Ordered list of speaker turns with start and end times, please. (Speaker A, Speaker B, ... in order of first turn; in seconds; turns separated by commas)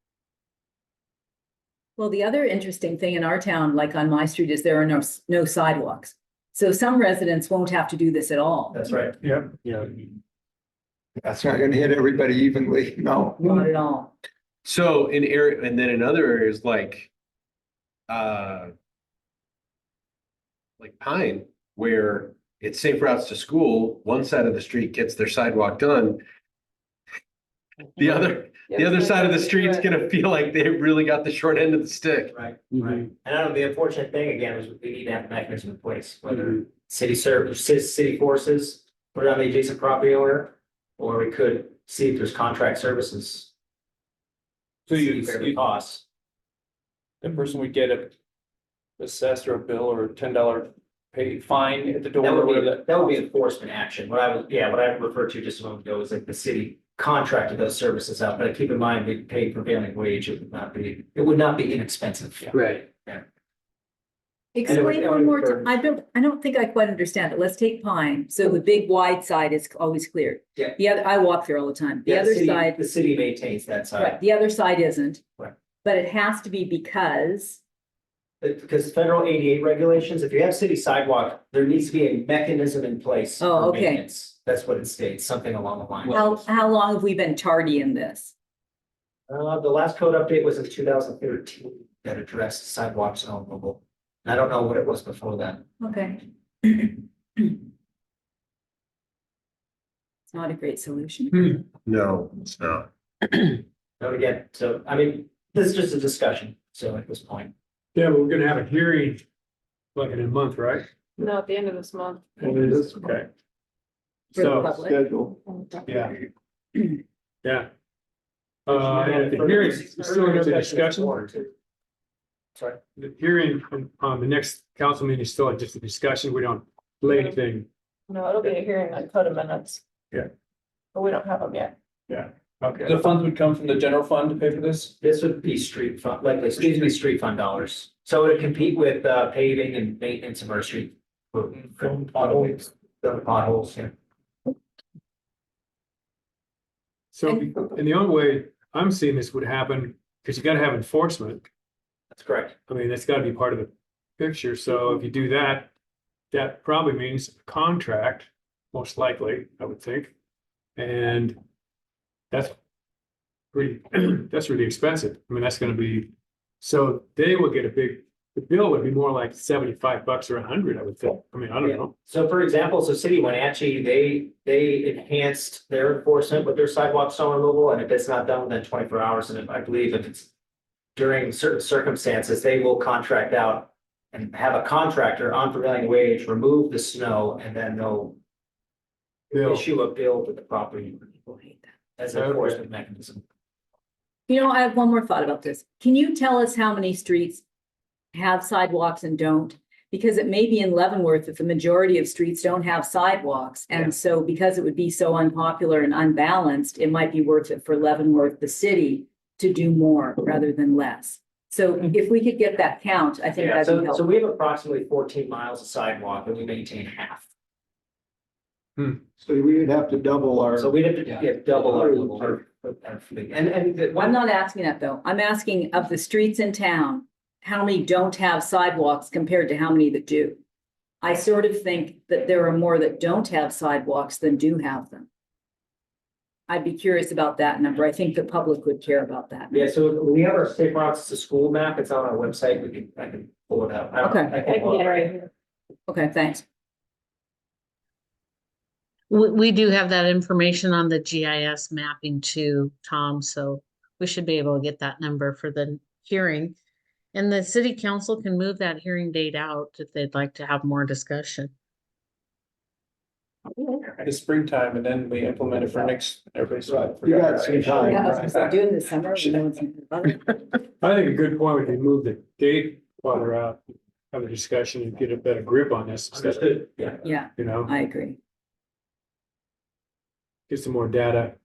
Speaker A: 2.0-8.8, Speaker B: 8.7-9.2, Speaker C: 11.2-13.7, Speaker A: 13.4-14.1, Speaker D: 14.7-17.1, Speaker D: 18.1-18.7, Speaker D: 20.8-26.2, Speaker D: 28.0-32.4, Speaker E: 28.7-29.9, Speaker B: 32.3-43.5, Speaker F: 44.9-45.6, Speaker B: 44.9-46.0, Speaker F: 47.2-48.1, Speaker F: 49.0-53.2, Speaker B: 52.2-63.2, Speaker D: 62.5-62.8, Speaker A: 64.5-72.8, Speaker B: 64.7-65.7, Speaker B: 72.0-74.2, Speaker A: 74.0-75.2, Speaker A: 75.8-77.6, Speaker B: 78.4-86.4, Speaker A: 83.4-84.0, Speaker A: 86.1-88.3, Speaker B: 89.3-95.6, Speaker A: 95.8-97.5, Speaker A: 100.3-101.6, Speaker G: 101.3-101.6, Speaker D: 101.9-102.9, Speaker B: 104.0-107.5, Speaker G: 108.0-109.2, Speaker G: 110.0-110.9, Speaker E: 111.2-112.4, Speaker G: 112.4-113.2, Speaker C: 112.5-113.2, Speaker G: 114.3-114.8, Speaker A: 114.3-115.0, Speaker C: 114.4-115.5, Speaker G: 115.9-116.2, Speaker G: 117.4-117.7, Speaker G: 118.7-121.3, Speaker B: 118.7-121.5, Speaker G: 123.0-127.7, Speaker E: 128.1-129.8, Speaker E: 130.9-131.7, Speaker G: 132.1-132.9, Speaker F: 132.8-134.9, Speaker B: 135.0-143.9, Speaker G: 147.1-151.5, Speaker B: 152.1-152.6, Speaker G: 152.7-155.7, Speaker G: 156.3-160.1, Speaker G: 160.8-161.4, Speaker G: 163.5-172.0, Speaker B: 171.6-180.3, Speaker B: 181.0-188.2, Speaker B: 189.3-191.4, Speaker G: 189.3-189.7, Speaker B: 192.0-193.2, Speaker G: 192.1-192.6, Speaker A: 194.3-197.4, Speaker A: 198.1-214.0, Speaker B: 213.4-217.2, Speaker C: 219.2-222.4, Speaker B: 220.6-224.2, Speaker A: 224.0-230.4, Speaker A: 231.0-235.1, Speaker A: 236.5-239.5, Speaker B: 239.5-245.1, Speaker A: 244.0-244.3, Speaker E: 244.5-245.3, Speaker A: 245.9-246.4, Speaker H: 249.1-256.6, Speaker H: 257.1-261.5, Speaker F: 264.0-268.4, Speaker C: 266.7-268.5, Speaker A: 267.9-270.6, Speaker G: 270.8-276.6, Speaker B: 276.2-277.0, Speaker A: 277.0-278.2, Speaker G: 277.4-277.7, Speaker G: 280.5-281.4